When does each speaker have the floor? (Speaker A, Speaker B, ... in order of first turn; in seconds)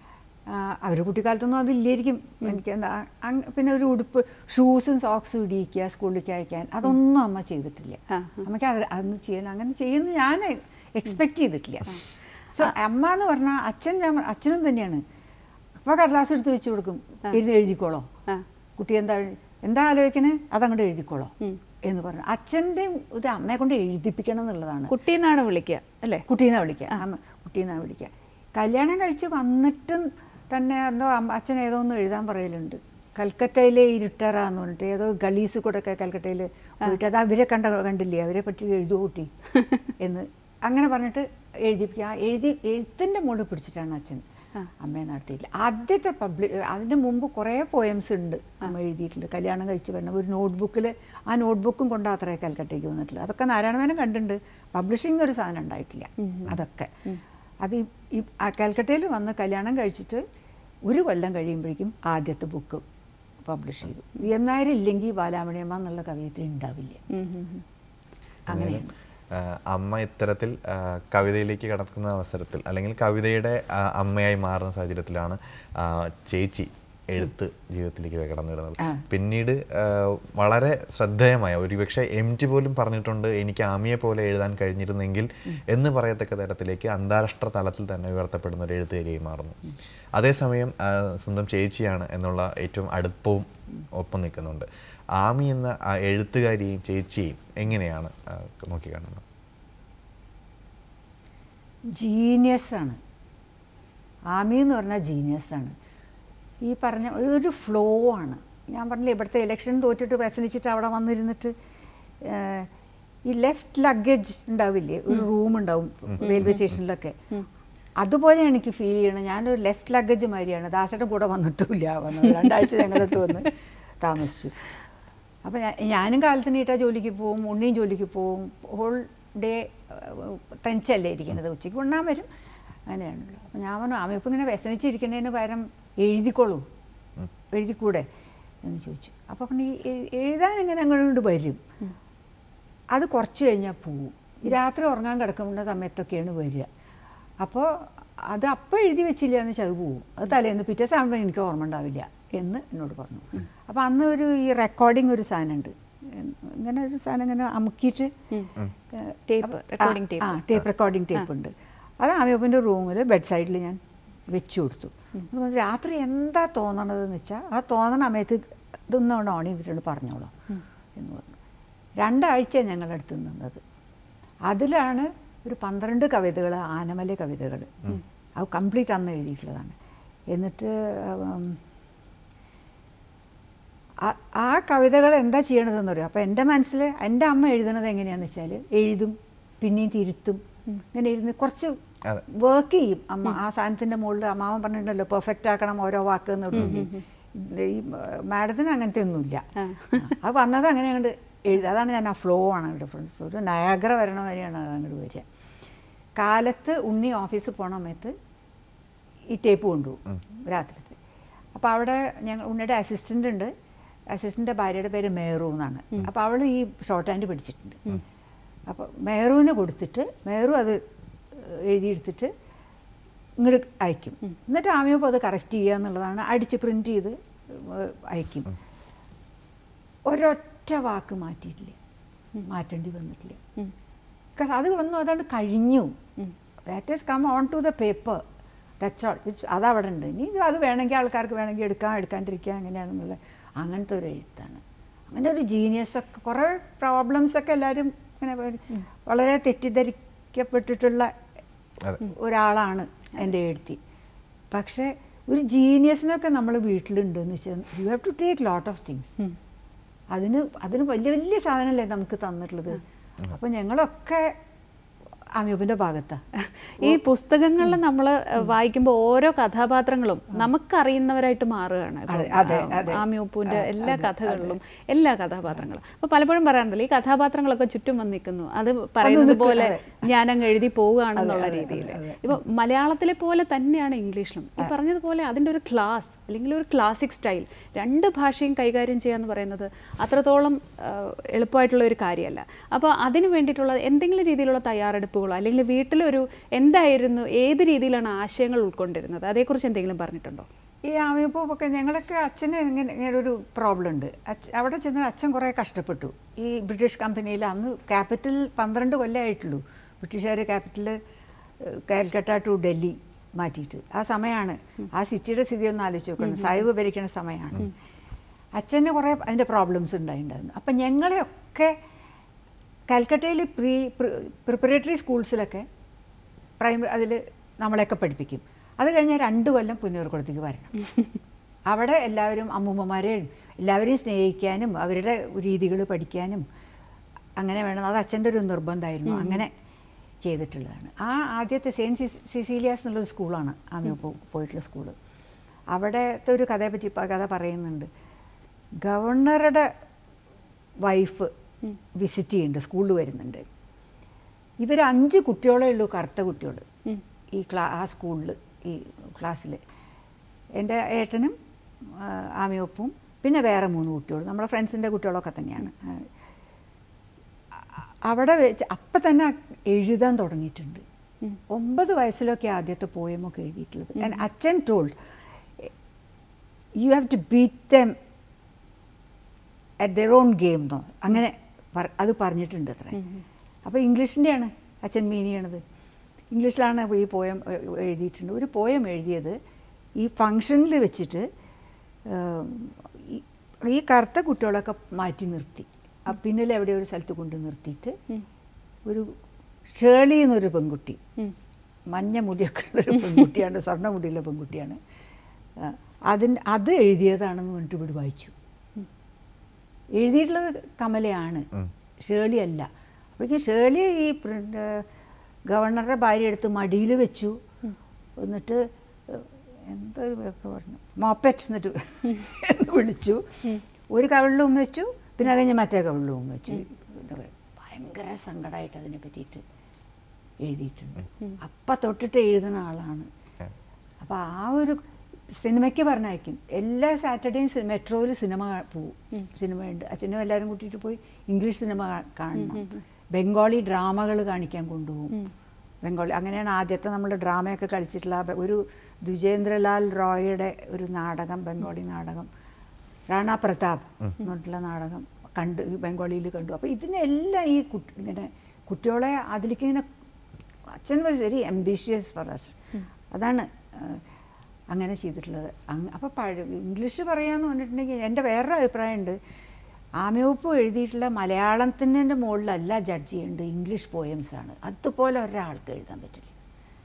Speaker A: 0.5-12.0, 12.5-15.0, 15.8-18.1, 18.8-21.3, 21.9-24.9, 26.3-39.3, 40.0-44.2, 44.8-56.9, 57.6-60.2, 60.9-62.9, 63.4-67.0, 68.5-68.9, 101.9-103.0, 104.3-105.7, 106.6-111.5, 112.2-112.7, 113.2-117.2, 118.0-124.7, 125.4-132.3, 132.9-136.6, 137.5-138.1, 138.6-141.6, 142.9-146.7, 147.4-158.1, 158.9-170.3, 171.0-171.4, 172.0-173.6, 174.5-179.8, 180.3-181.6, 184.0-205.2, 206.2-208.1, 209.3-211.0, 211.6-213.5, 214.1-218.0, 218.7-222.3, 223.4-228.5, 230.1-231.8, 232.5-233.4, 234.4-236.0, 236.7-238.2, 238.8-251.1, 252.0-253.8, 254.5-259.2, 260.1-264.4, 265.4-266.2, 272.1-274.6, 279.0-280.1, 281.2-282.4, 300.8-311.0, 311.6-317.7, 318.6-321.8, 322.9-325.7, 326.6-330.8, 331.7-336.5, 337.4-339.5, 340.2-344.9, 345.7-347.9, 348.8-349.7, 350.8-351.3, 351.9-353.4, 354.6-356.6, 357.3-359.6, 360.6-366.1, 368.0-370.8, 371.5-374.9, 376.8-377.9, 379.8-383.0, 383.6-385.6, 386.3-389.4, 390.0-391.3, 392.1-397.9, 398.9-399.1, 399.7-401.0, 401.9-404.8, 405.6-408.3, 409.9-411.5, 412.0-414.9, 415.5-417.4, 418.2-423.4, 423.9-429.4, 430.4-433.1, 434.0-445.2, 445.8-452.3, 453.1-459.9, 460.7-462.6, 463.1-464.0, 464.7-469.2, 470.0-476.3
Speaker B: 8.1-8.4, 24.9-26.2, 56.2-56.5, 67.1-67.6, 116.2-116.6, 159.3-160.4, 196.6-197.0, 199.6-200.0, 266.4-300.5, 316.2-316.6, 339.1-339.4, 382.9-383.2, 442.4-442.7
Speaker C: 68.5-99.2